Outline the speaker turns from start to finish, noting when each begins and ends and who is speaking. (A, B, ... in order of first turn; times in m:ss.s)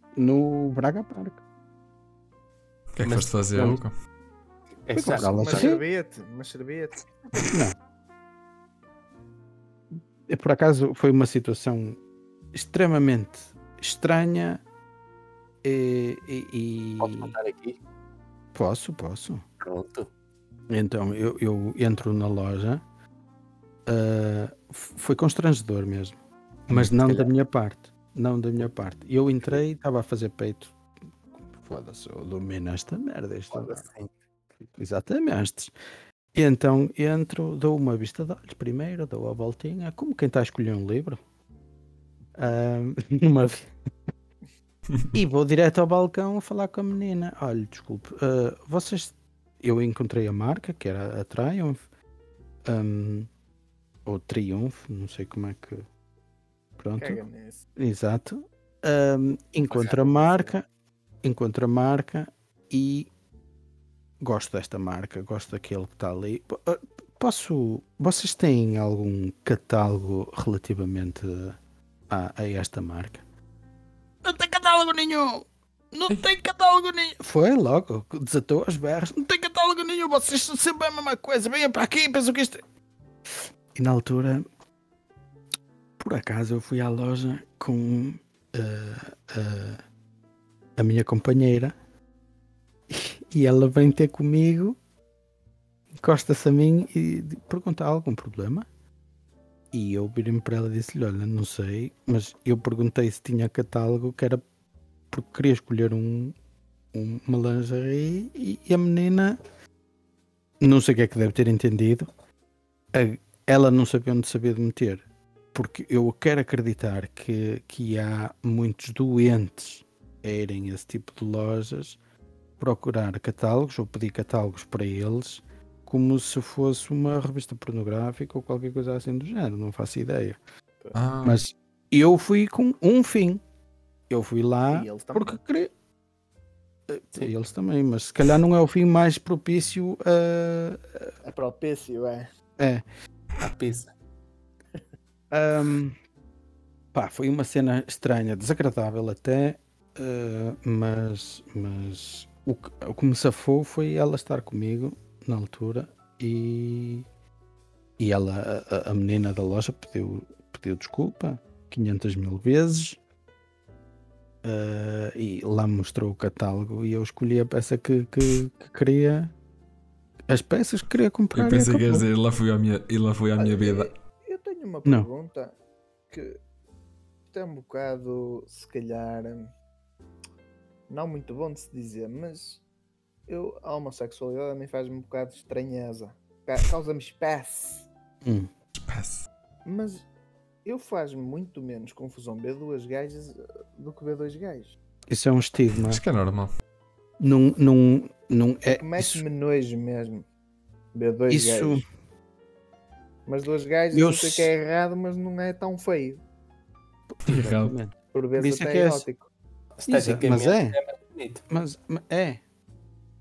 0:00.2-0:01.4 A
0:02.9-0:03.9 B
0:03.0-0:03.8 C
0:04.8-0:05.8 C
0:04.9-0:05.8 A
0:05.1-0:07.0 D
0:10.3-0:12.0 A
0:12.5-0:14.6 A
0:15.6-0:17.4 A
0:17.0-0:17.8 C
0:18.5-0:19.4 A
0:19.6-0:20.1 C
0:20.7-0:22.8 A
0:23.9-0:26.2 A
0:26.7-0:30.7 A
0:26.7-0:27.3 C
0:31.5-0:33.8 A
0:33.5-0:34.1 C
0:34.7-0:35.7 A
0:36.3-0:41.2 A
0:42.4-0:43.7 A
0:45.1-0:51.8 A
0:52.6-0:53.3 A
0:54.0-0:55.8 A
0:56.8-0:57.2 A
0:57.0-0:57.6 D
0:57.8-1:00.6 A
0:59.7-1:00.5 C
1:01.2-1:03.1 A
1:04.2-1:11.6 A
1:12.1-1:13.2 A
1:14.2-1:22.6 A
1:23.7-1:24.4 A
1:26.0-1:29.8 A
1:30.8-1:31.7 A
1:32.9-1:34.8 A
1:36.0-1:38.6 A
1:39.7-1:44.4 A
1:45.1-1:46.3 A
1:46.9-1:49.4 A
1:50.6-1:52.1 A
1:52.9-2:02.0 A
2:02.6-2:10.4 A
2:10.9-2:11.4 B
2:11.2-2:13.4 A
2:14.1-2:15.7 A
2:14.7-2:15.4 D
2:16.9-2:21.1 A
2:21.2-2:22.3 D
2:23.4-2:23.9 C
2:25.3-2:26.0 A
2:26.9-2:37.0 A
2:38.0-2:43.0 A
2:44.4-2:49.3 A
2:50.3-2:52.1 A
2:51.3-2:53.9 B
2:53.4-2:55.5 D
2:56.1-2:56.4 D
2:57.3-2:59.5 D
3:00.9-3:02.6 D
3:03.3-3:07.8 D
3:08.7-3:09.2 B
3:09.6-3:10.0 D
3:10.6-3:14.7 D
3:15.1-3:16.0 A
3:15.9-3:16.5 B
3:17.2-3:19.2 A
3:18.7-3:20.2 D
3:20.9-3:21.8 D
3:21.3-3:21.8 A
3:23.3-3:26.2 D
3:23.9-3:24.5 A
3:27.2-3:29.0 A
3:27.2-3:27.7 B
3:28.1-3:29.3 D
3:29.8-3:31.4 C
3:29.9-3:30.8 A
3:31.5-3:32.4 A